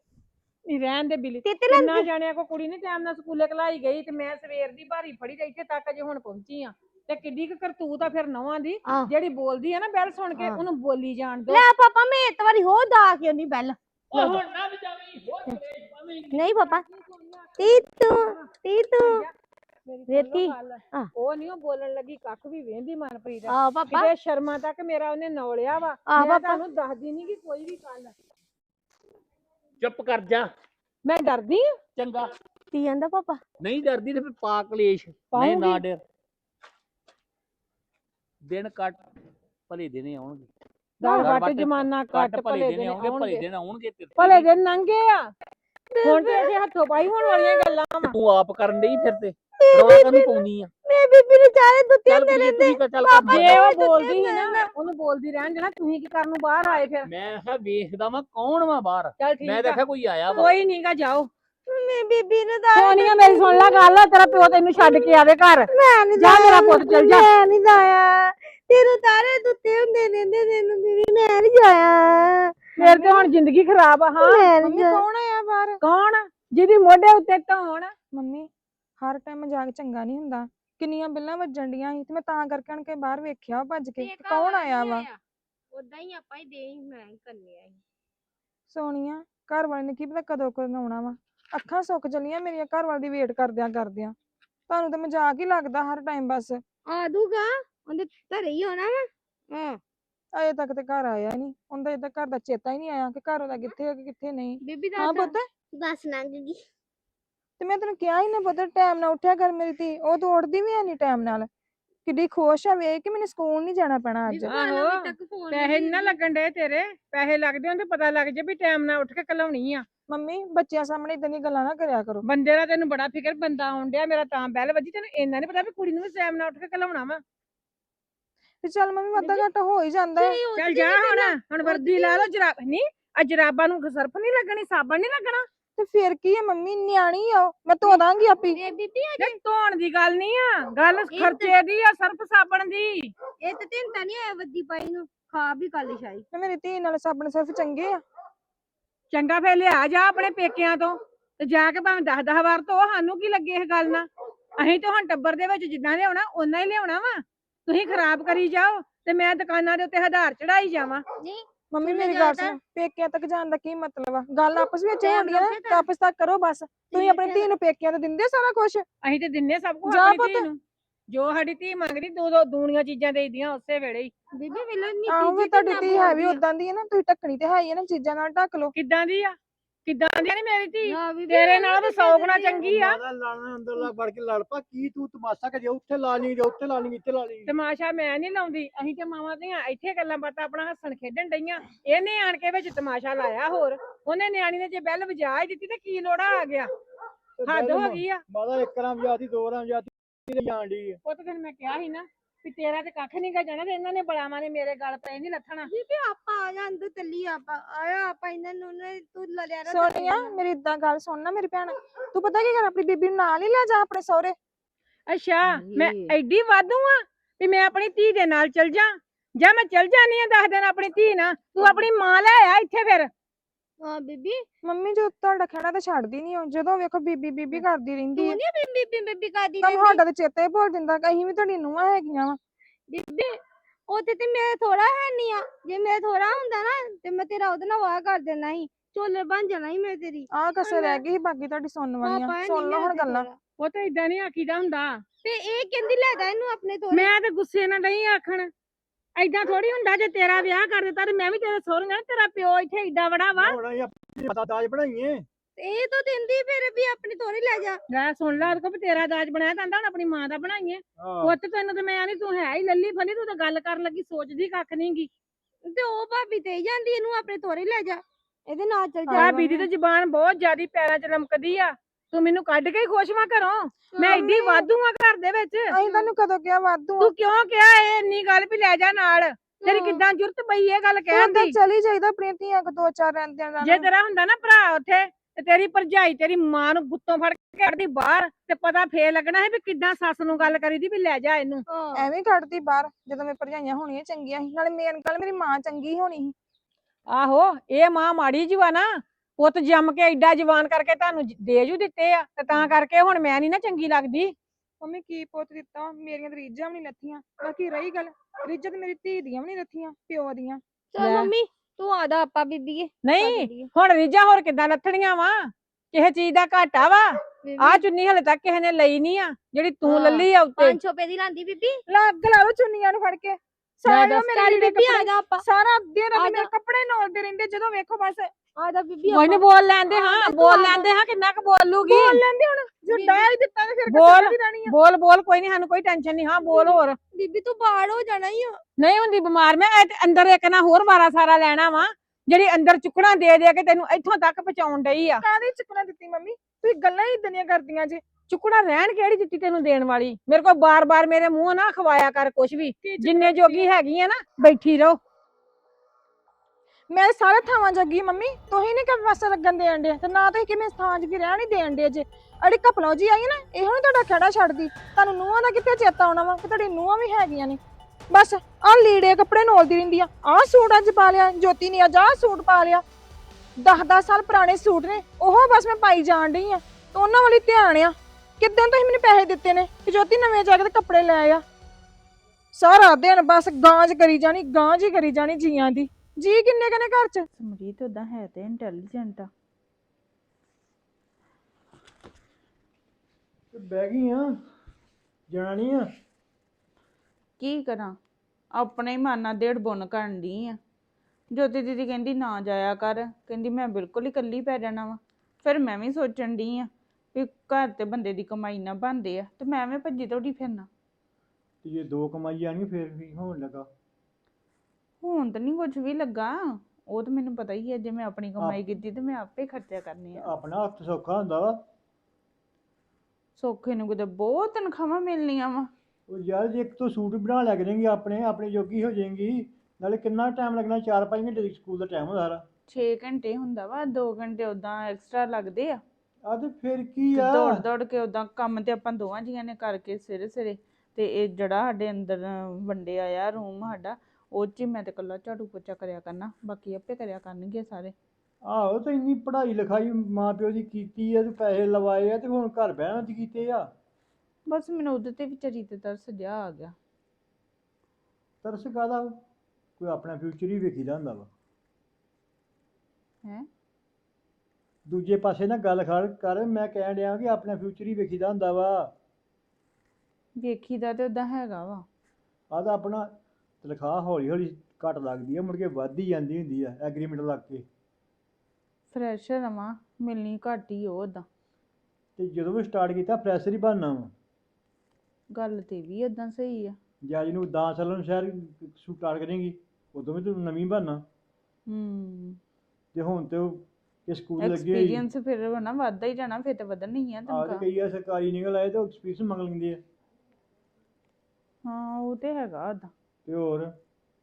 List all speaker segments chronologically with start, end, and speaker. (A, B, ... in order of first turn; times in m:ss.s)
0:00.7-0:11.6 A
0:01.4-0:02.1 B
0:10.4-0:10.6 B
0:11.5-0:14.4 B
0:14.1-0:16.6 C
0:16.3-0:16.8 B
0:16.6-0:19.3 A
0:17.6-0:19.3 B
0:19.9-0:28.1 A
0:20.1-0:21.1 B
0:23.5-0:24.1 B
0:26.1-0:26.6 B
0:29.8-0:30.5 C
0:31.1-0:31.8 A
0:32.0-0:32.3 C
0:32.7-0:33.4 B
0:33.6-0:36.0 C
0:35.3-0:35.8 A
0:38.4-0:39.0 C
0:39.7-0:40.5 C
0:41.0-0:43.4 A
0:41.0-0:44.5 C
0:44.2-0:45.3 A
0:45.9-0:46.5 B
0:46.0-0:48.2 A
0:47.2-0:47.8 B
0:48.0-0:50.7 C
0:49.6-0:54.7 B
0:52.1-0:53.7 C
0:53.3-0:57.1 A
0:57.0-1:00.5 C
0:59.2-0:59.8 A
1:00.3-1:01.3 A
1:01.7-1:12.7 B
1:02.8-1:07.3 A
1:12.8-1:13.3 D
1:12.8-1:14.5 A
1:14.2-1:15.0 B
1:14.6-1:15.8 D
1:15.8-1:17.9 A
1:18.1-1:25.0 D
1:24.0-1:25.2 B
1:25.7-1:27.8 B
1:28.7-1:34.2 D
1:34.7-1:36.6 D
1:36.9-1:39.8 B
1:40.3-1:45.5 D
1:44.6-1:46.6 B
1:47.6-1:51.5 D
1:52.0-1:54.6 D
1:54.3-1:56.2 B
1:54.5-1:59.9 A
2:00.1-2:02.2 D
2:02.2-2:07.2 A
2:08.6-2:10.4 D
2:09.2-2:09.4 B
2:10.2-2:12.3 B
2:10.6-2:15.5 A
2:15.8-2:18.6 D
2:17.8-2:19.4 B
2:19.2-2:23.1 A
2:21.1-2:21.6 B
2:23.4-2:26.2 B
2:26.3-2:28.0 D
2:29.1-2:41.0 A
2:41.2-2:42.6 B
2:41.7-2:48.8 D
2:45.0-2:45.8 B
2:46.9-2:47.5 B
2:49.0-2:54.1 A
2:49.9-2:50.5 D
2:54.4-2:56.4 B
2:55.1-2:58.7 D
2:58.7-3:03.0 A
3:00.8-3:02.7 B
3:02.6-3:07.5 E
3:07.5-3:16.7 A
3:17.4-3:21.0 E
3:17.5-3:18.2 A
3:21.0-3:25.7 A
3:25.7-3:30.4 B
3:29.7-3:34.4 D
3:35.1-3:43.1 A
3:35.5-3:36.2 B
3:43.8-3:44.4 B
3:44.6-3:48.4 D
3:48.2-3:50.0 B
3:49.6-3:52.4 D
3:52.9-4:01.0 B
4:00.3-4:03.3 D
4:02.0-4:03.4 B
4:03.6-4:05.0 A
4:05.2-4:07.1 B
4:06.9-4:08.5 A
4:09.2-4:13.6 A
4:13.3-4:15.3 E
4:15.6-4:17.8 B
4:17.9-4:25.1 A
4:21.0-4:21.4 E
4:25.6-4:29.4 B
4:29.1-4:29.6 D
4:29.1-4:35.8 A
4:33.9-4:34.3 B
4:34.0-4:34.6 D
4:35.7-4:37.1 D
4:35.8-4:36.1 B
4:37.0-4:41.6 A
4:39.6-4:40.0 B
4:41.1-4:43.9 D
4:43.6-4:51.6 A
4:51.7-4:52.0 B
4:52.0-4:56.4 D
4:57.1-5:04.3 A
5:04.8-5:10.6 D
5:10.9-5:13.7 B
5:11.0-5:11.3 A
5:13.0-5:20.8 A
5:17.4-5:17.8 B
5:19.8-5:21.8 B
5:21.9-5:28.3 D
5:23.9-5:24.3 A
5:24.3-5:25.4 B
5:26.1-5:26.5 B
5:28.6-5:29.4 B
5:29.1-5:32.2 A
5:30.1-5:30.9 B
5:31.9-5:34.7 D
5:32.9-5:33.3 B
5:33.9-5:37.0 A
5:36.5-5:38.6 B
5:38.8-5:45.2 A
5:45.2-5:48.0 D
5:48.3-5:55.0 A
5:52.8-5:53.7 D
5:56.9-6:12.8 D
6:13.6-6:21.4 D
6:22.6-6:27.3 D
6:27.4-6:29.3 F
6:33.5-6:34.4 E
6:35.3-6:35.9 E
6:37.4-6:38.0 F
6:38.5-6:40.6 F
6:41.3-6:50.7 F
6:51.6-6:53.7 E
6:55.0-7:00.3 F
7:00.2-7:01.6 E
7:03.4-7:05.7 F
7:06.1-7:12.4 E
7:12.7-7:15.8 F
7:16.3-7:17.6 E
7:17.1-7:27.9 F
7:28.4-7:33.7 E
7:34.5-7:36.8 F
7:38.4-7:39.2 E
7:39.8-7:41.3 E
7:44.9-7:48.9 E
7:50.4-7:51.8 F
7:52.5-7:57.7 E
7:58.9-8:01.3 F
8:02.2-8:04.1 E
8:05.3-8:06.8 F
8:07.0-8:11.0 E
8:11.7-8:12.4 F
8:12.9-8:15.0 E
8:14.4-8:17.6 F
8:17.3-8:19.8 E
8:21.6-8:22.9 F
8:23.3-8:23.7 E